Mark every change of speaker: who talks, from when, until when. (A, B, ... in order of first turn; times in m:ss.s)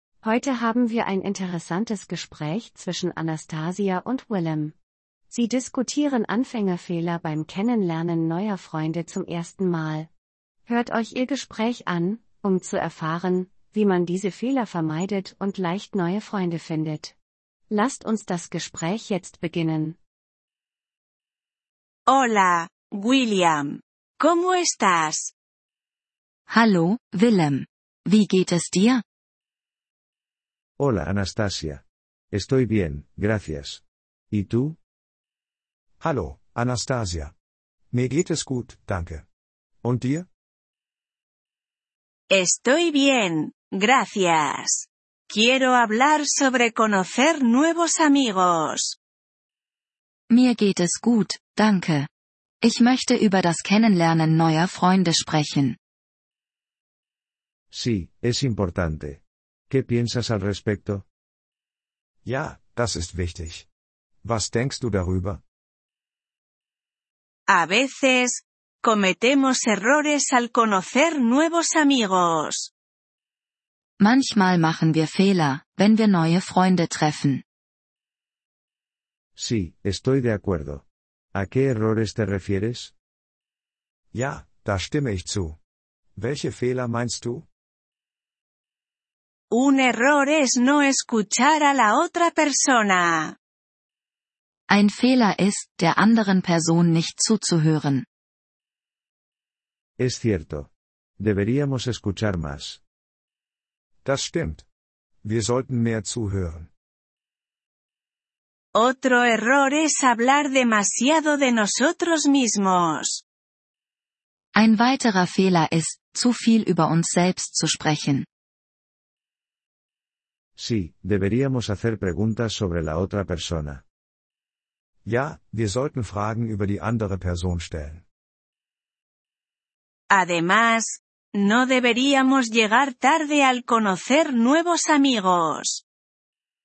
0:00.2-0:04.8 A
0:05.3-0:10.1 A
0:10.7-0:17.2 A
0:17.7-0:20.0 A
0:22.1-0:25.3 B
0:26.5-0:29.0 C
0:30.8-0:34.8 D
0:36.0-0:37.3 E
0:37.9-0:39.3 E
0:39.8-0:40.3 E
0:42.3-0:49.0 B
0:50.3-0:52.1 C
0:52.6-0:55.8 C
0:57.7-1:01.0 D
1:02.2-1:03.7 E
1:04.2-1:05.4 E
1:07.5-1:12.7 B
1:14.0-1:17.4 C
1:19.4-1:22.9 D
1:24.1-1:25.6 E
1:26.2-1:27.5 E
1:29.5-1:33.4 B
1:34.7-1:38.1 C
1:40.0-1:42.8 D
1:44.0-1:44.7 E
1:45.2-1:46.7 E
1:48.8-1:53.2 B
1:54.6-1:58.3 C
2:00.6-2:03.8 D
2:05.0-2:08.0 E
2:10.1-2:15.8 B